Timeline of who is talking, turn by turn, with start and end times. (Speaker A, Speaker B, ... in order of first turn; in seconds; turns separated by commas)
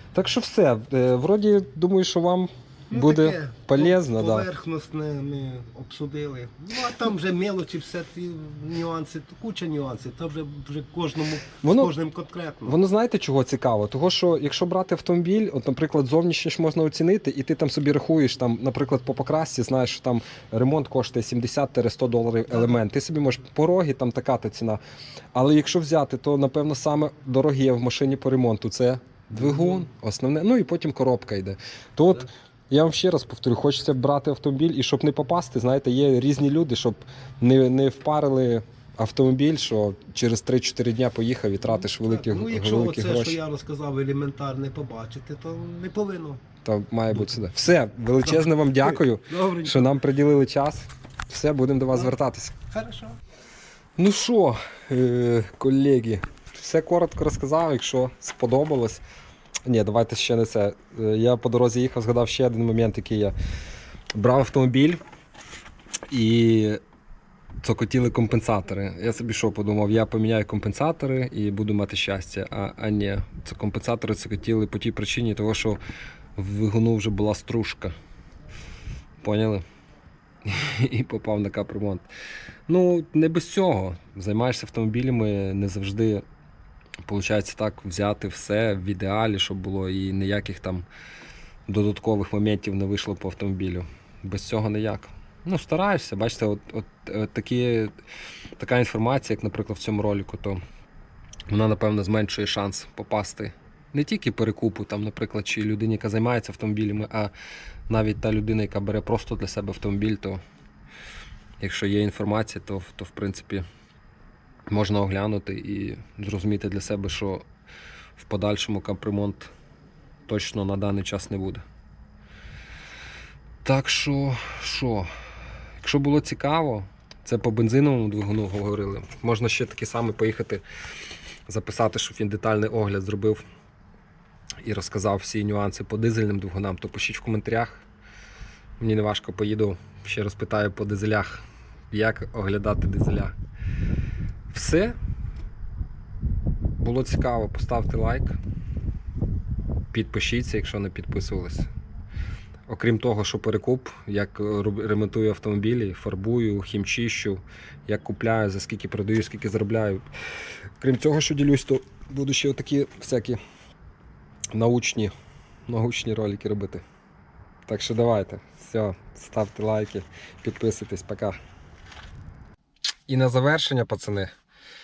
Speaker A: 0.1-4.5, Speaker B: 2.9-12.8, Speaker A: 11.6-11.9, Speaker A: 12.7-24.8, Speaker B: 22.5-22.8, Speaker A: 25.3-43.4, Speaker B: 29.3-29.9, Speaker B: 42.0-46.4, Speaker A: 46.6-52.5, Speaker B: 48.2-50.0, Speaker B: 52.7-53.2, Speaker A: 54.0-59.0, Speaker A: 59.6-63.3, Speaker A: 64.2-65.0, Speaker A: 66.1-66.8, Speaker A: 67.6-75.8, Speaker A: 76.4-77.9, Speaker A: 79.2-79.6, Speaker A: 80.5-82.1, Speaker A: 82.7-86.2, Speaker A: 87.0-90.9, Speaker A: 91.7-98.0, Speaker A: 98.6-100.6, Speaker A: 101.5-107.3, Speaker A: 107.9-110.4, Speaker A: 111.6-113.7, Speaker A: 114.7-117.5, Speaker A: 118.2-119.5, Speaker A: 120.3-121.6, Speaker A: 123.6-125.1, Speaker A: 125.8-130.6, Speaker A: 131.5-133.4, Speaker A: 134.6-137.8, Speaker A: 138.8-143.3, Speaker A: 144.5-145.0, Speaker A: 146.8-148.4, Speaker A: 149.9-151.7, Speaker A: 152.7-163.4, Speaker A: 164.5-165.1, Speaker A: 165.7-166.8, Speaker A: 167.7-171.4, Speaker A: 173.1-174.3